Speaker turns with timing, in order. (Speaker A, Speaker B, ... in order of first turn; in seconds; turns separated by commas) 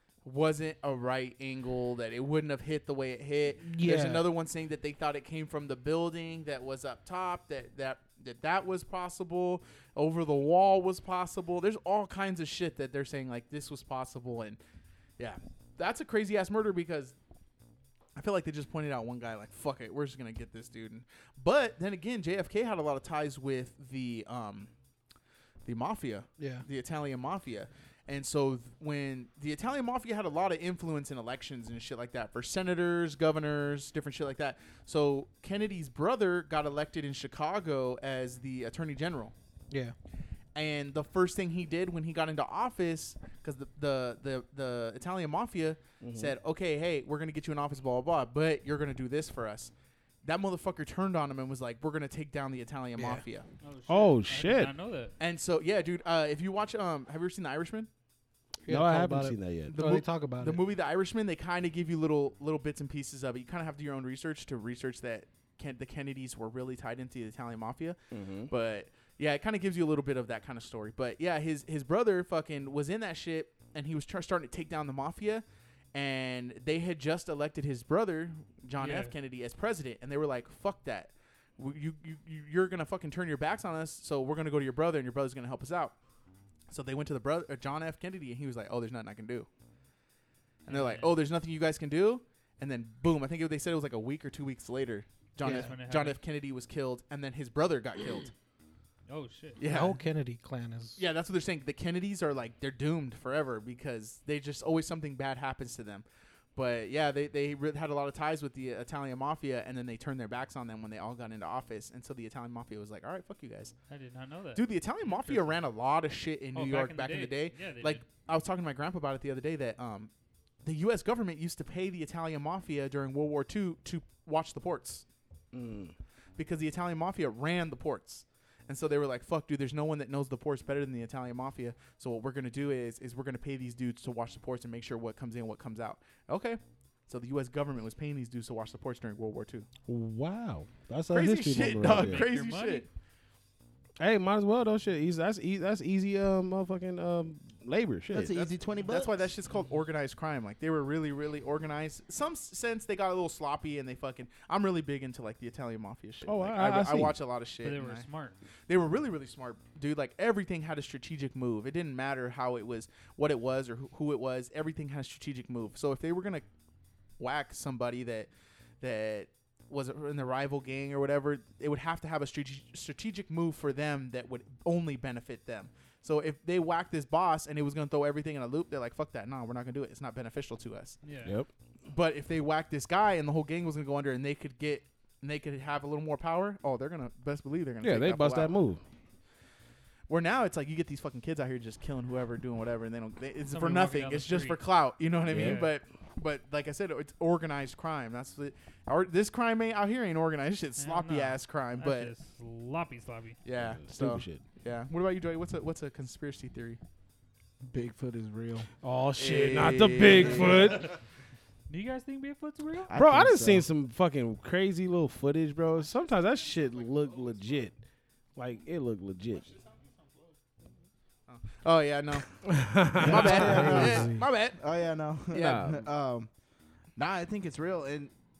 Speaker A: 0.2-14.6, Speaker B: 3.6-4.3, Speaker A: 15.2-17.1, Speaker A: 18.1-24.7, Speaker A: 25.6-39.3, Speaker B: 26.4-26.6, Speaker B: 39.7-39.9, Speaker A: 40.5-49.7, Speaker C: 46.0-46.3, Speaker A: 50.2-53.5, Speaker B: 53.0-53.2, Speaker D: 53.6-55.1, Speaker C: 53.9-54.7, Speaker A: 55.2-57.9, Speaker B: 58.6-60.6, Speaker C: 58.7-59.8, Speaker A: 59.7-85.9, Speaker C: 68.1-68.5, Speaker D: 78.8-79.1, Speaker A: 86.7-89.5, Speaker A: 90.7-98.3, Speaker D: 90.7-91.1, Speaker D: 95.4-96.2, Speaker B: 95.4-95.7, Speaker D: 99.1-99.6, Speaker A: 99.6-100.0, Speaker B: 99.6-101.0, Speaker A: 101.0-106.0, Speaker A: 106.5-113.7, Speaker D: 113.9-115.6, Speaker A: 114.5-120.1, Speaker D: 116.5-118.0, Speaker A: 120.6-125.0, Speaker C: 125.5-125.9, Speaker A: 126.4-139.7, Speaker C: 139.9-142.2, Speaker A: 141.1-142.8, Speaker D: 141.8-142.9, Speaker C: 144.0-148.4, Speaker E: 148.1-149.3, Speaker A: 148.3-158.1, Speaker C: 156.2-157.2, Speaker D: 157.6-158.4, Speaker A: 158.7-166.4, Speaker A: 167.2-168.3, Speaker A: 168.8-181.0, Speaker D: 181.0-181.3, Speaker C: 181.2-181.5, Speaker A: 181.9-188.6, Speaker C: 187.8-188.8, Speaker A: 190.1-202.1, Speaker D: 193.5-194.6, Speaker D: 195.2-195.7, Speaker C: 195.3-195.7, Speaker D: 200.8-203.4, Speaker A: 203.4-206.8, Speaker C: 203.5-204.4, Speaker E: 207.6-208.7, Speaker C: 208.8-210.9, Speaker A: 209.2-210.8, Speaker D: 210.4-210.9, Speaker D: 211.7-212.9, Speaker E: 212.9-213.7, Speaker C: 212.9-217.8, Speaker C: 218.3-219.5, Speaker A: 221.3-224.6, Speaker C: 222.4-223.9, Speaker B: 223.0-224.3, Speaker E: 223.0-226.3, Speaker A: 225.3-225.7, Speaker C: 225.3-225.9, Speaker E: 226.9-228.1